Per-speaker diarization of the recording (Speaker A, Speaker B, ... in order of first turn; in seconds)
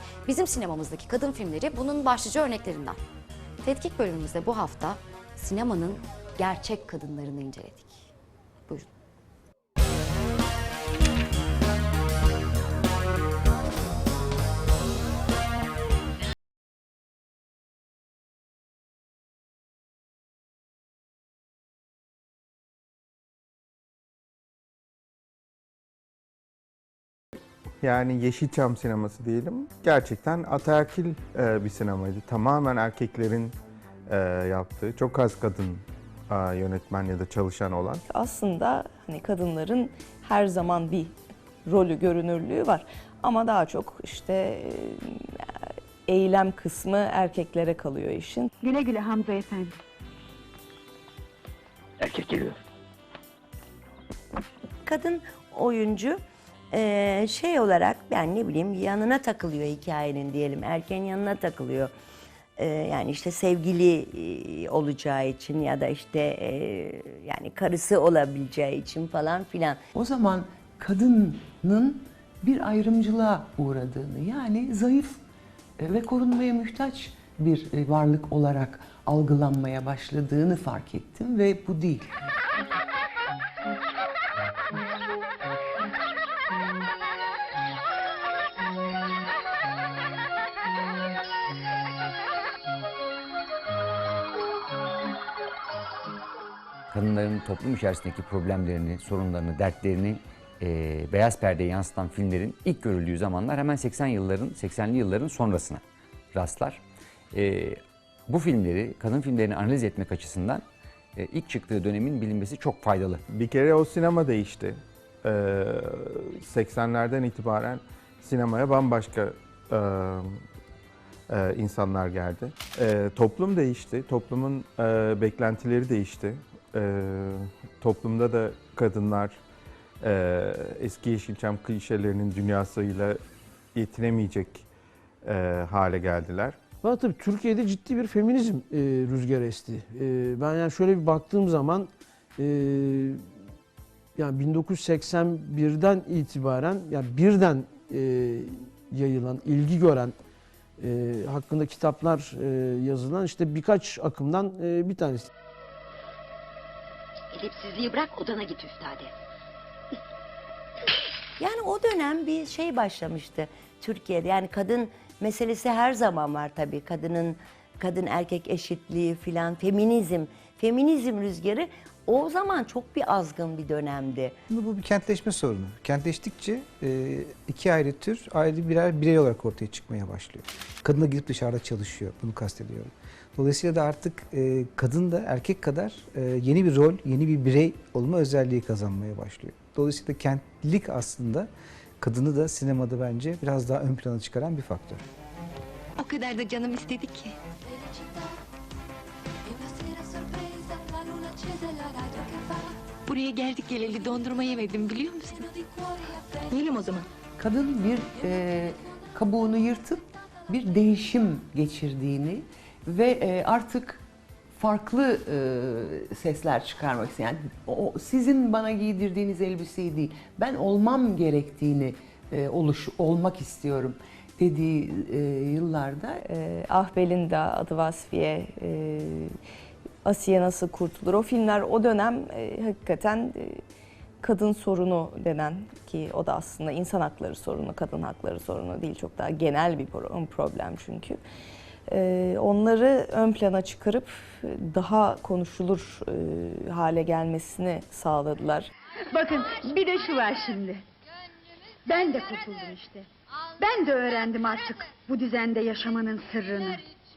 Speaker A: 0.2-3.0, 3.6-8.1
Speaker B: 27.8-33.5, 34.1-38.0, 113.3-120.4, 121.3-129.4, 130.0-133.2, 133.7-134.7, 135.2-136.6
Speaker C: 38.1-45.5, 46.1-48.5, 226.2-229.3, 230.0-233.6, 234.2-241.2, 241.9-248.7
Speaker D: 48.6-49.7, 249.1-250.8, 251.8-253.1, 253.6-256.8
Speaker E: 54.8-56.2, 56.7-61.9, 62.6-69.8, 161.4-174.3
Speaker F: 69.9-75.2, 75.8-82.1, 207.4-214.0, 214.5-226.2
Speaker G: 96.9-105.8, 106.3-106.8, 107.3-110.6, 111.2-113.2
Speaker H: 136.8-143.2, 144.2-150.1, 150.8-155.2
Speaker I: 174.5-195.0
Speaker J: 196.0-197.3, 203.1-205.5, 206.5-207.0